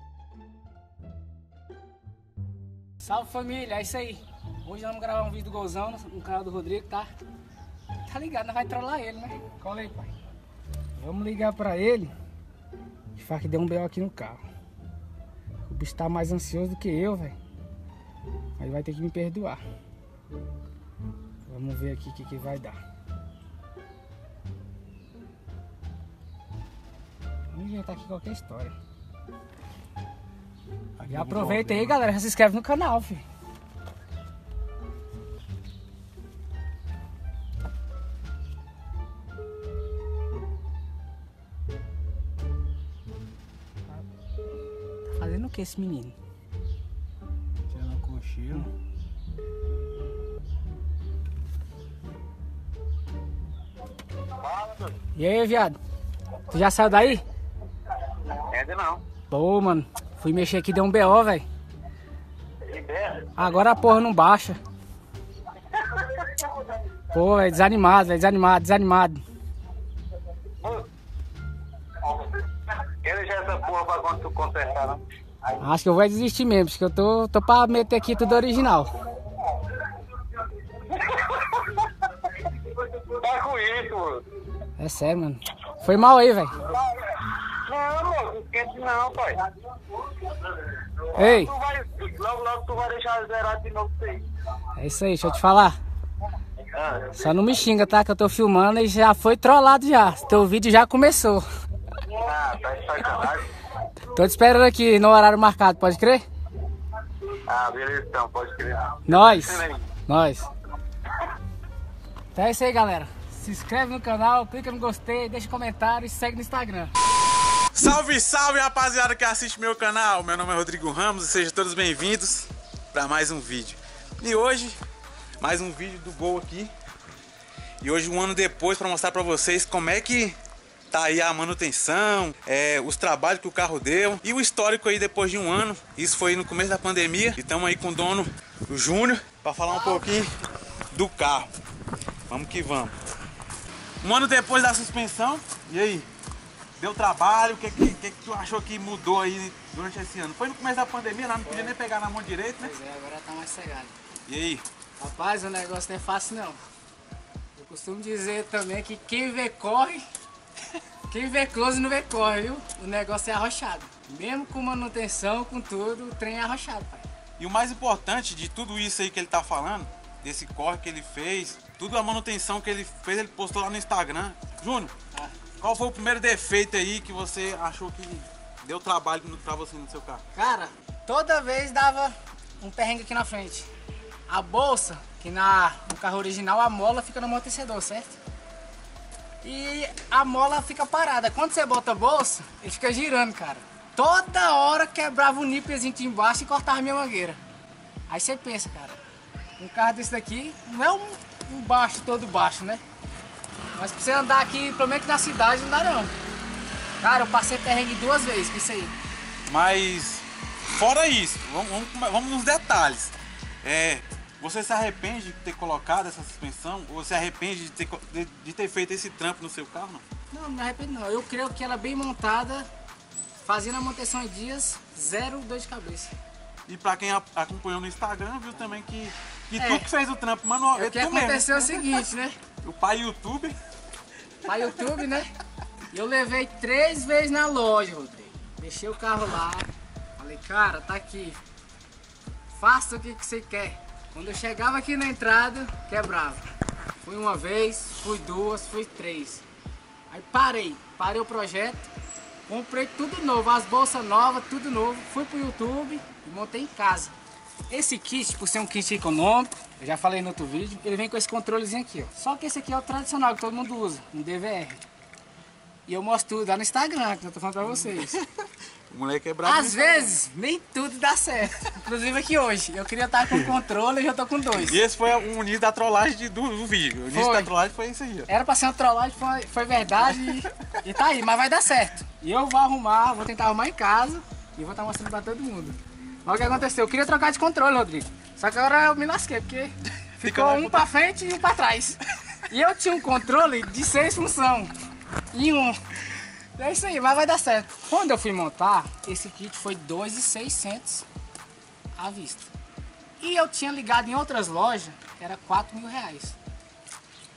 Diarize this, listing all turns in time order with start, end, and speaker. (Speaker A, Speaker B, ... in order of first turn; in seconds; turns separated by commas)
Speaker A: 3.0-7.1, Speaker A: 8.1-10.1, Speaker A: 11.0-12.1, Speaker A: 13.1-14.4, Speaker A: 15.6-17.4, Speaker A: 18.6-19.6, Speaker A: 21.4-22.8, Speaker A: 27.5-28.8, Speaker B: 31.0-32.0, Speaker A: 31.1-33.2, Speaker A: 45.1-46.2, Speaker A: 47.7-48.7, Speaker C: 54.4-54.9, Speaker A: 55.1-55.8, Speaker A: 56.5-57.2, Speaker C: 58.3-59.0, Speaker A: 59.3-61.5, Speaker C: 62.6-63.3, Speaker A: 63.4-64.6, Speaker C: 65.8-66.5, Speaker A: 67.1-69.2, Speaker C: 70.6-70.9, Speaker C: 72.0-75.0, Speaker A: 75.6-79.0, Speaker C: 79.5-79.8, Speaker C: 80.9-81.9, Speaker C: 82.6-84.2, Speaker A: 84.8-86.6, Speaker C: 86.7-89.5, Speaker C: 90.2-94.2, Speaker A: 91.1-91.5, Speaker A: 94.7-95.8, Speaker C: 96.7-97.1, Speaker A: 97.1-101.5, Speaker C: 102.0-103.5, Speaker A: 104.0-106.2, Speaker C: 107.3-109.8, Speaker A: 109.0-110.5, Speaker A: 112.3-116.9, Speaker B: 117.7-124.8, Speaker B: 125.4-126.7, Speaker B: 127.8-130.4, Speaker B: 130.9-140.3, Speaker B: 140.9-141.5, Speaker B: 142.3-142.9, Speaker B: 144.0-146.1, Speaker B: 146.8-152.7, Speaker A: 152.6-153.9, Speaker B: 154.3-154.6, Speaker A: 155.0-156.6, Speaker A: 157.6-160.1, Speaker A: 161.1-167.1, Speaker B: 167.4-174.9, Speaker B: 175.6-180.2, Speaker A: 180.3-183.7, Speaker A: 184.3-188.2, Speaker A: 189.4-197.4, Speaker A: 198.1-199.0, Speaker A: 199.6-202.8, Speaker A: 203.7-206.1, Speaker A: 207.0-208.9, Speaker B: 209.5-220.0, Speaker A: 220.3-222.7, Speaker A: 223.4-226.1, Speaker B: 226.7-232.0, Speaker A: 229.6-229.9, Speaker A: 230.7-232.4, Speaker B: 232.6-233.6, Speaker A: 234.4-235.3, Speaker A: 235.9-241.4, Speaker A: 242.6-246.4, Speaker A: 247.0-249.4, Speaker A: 250.1-251.9, Speaker A: 252.5-257.1, Speaker A: 257.7-264.8, Speaker A: 265.9-268.2, Speaker B: 267.9-268.2, Speaker B: 268.9-270.2, Speaker A: 269.4-274.8, Speaker B: 274.5-278.3, Speaker A: 277.1-277.5, Speaker A: 278.3-294.7, Speaker B: 280.2-280.7, Speaker B: 290.2-290.9, Speaker A: 295.3-295.8, Speaker A: 296.6-301.1, Speaker A: 301.9-302.5, Speaker A: 303.2-306.4